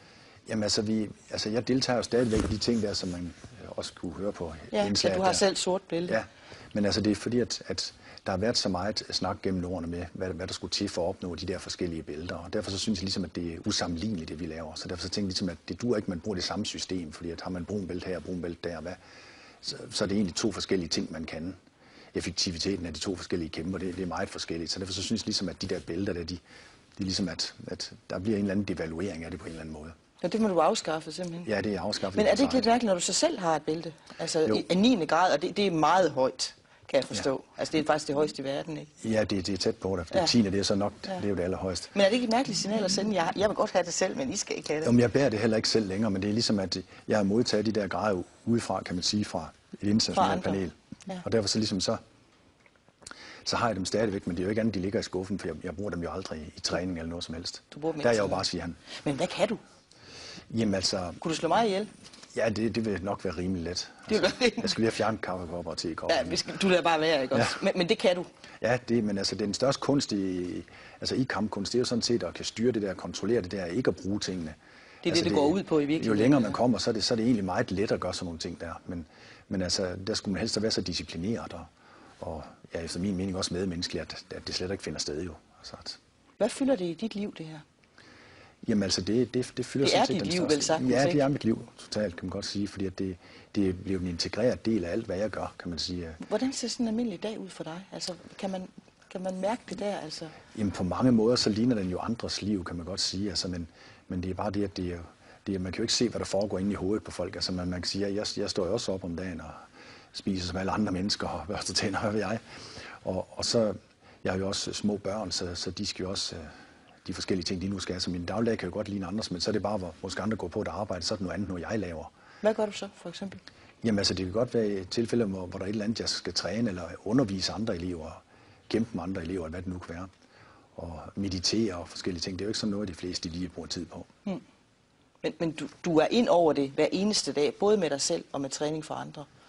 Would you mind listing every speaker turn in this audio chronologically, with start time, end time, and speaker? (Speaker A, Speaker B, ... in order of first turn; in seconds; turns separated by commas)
Speaker A: 0.5-5.4, Speaker B: 4.7-6.2, Speaker A: 6.1-19.0, Speaker A: 19.6-21.6, Speaker A: 22.1-26.4, Speaker A: 27.0-29.9, Speaker B: 30.2-31.5, Speaker A: 31.4-32.7, Speaker B: 32.1-38.9, Speaker A: 39.0-41.9, Speaker B: 41.9-44.9, Speaker A: 44.8-52.0, Speaker B: 50.1-51.2, Speaker A: 53.4-58.8, Speaker B: 57.7-58.4, Speaker B: 59.0-59.6, Speaker A: 60.5-61.2, Speaker B: 61.2-61.9, Speaker A: 62.3-66.4, Speaker B: 64.1-64.8, Speaker B: 66.1-68.3, Speaker A: 68.6-81.7, Speaker B: 75.0-76.6, Speaker A: 82.2-86.0, Speaker B: 86.4-87.6, Speaker A: 88.6-96.2, Speaker B: 89.8-91.2, Speaker B: 96.2-100.3, Speaker A: 100.5-109.6, Speaker A: 110.1-112.4, Speaker A: 113.0-116.5, Speaker A: 117.0-122.1, Speaker B: 122.4-123.4, Speaker A: 123.8-130.1, Speaker A: 130.8-134.1, Speaker B: 135.2-139.3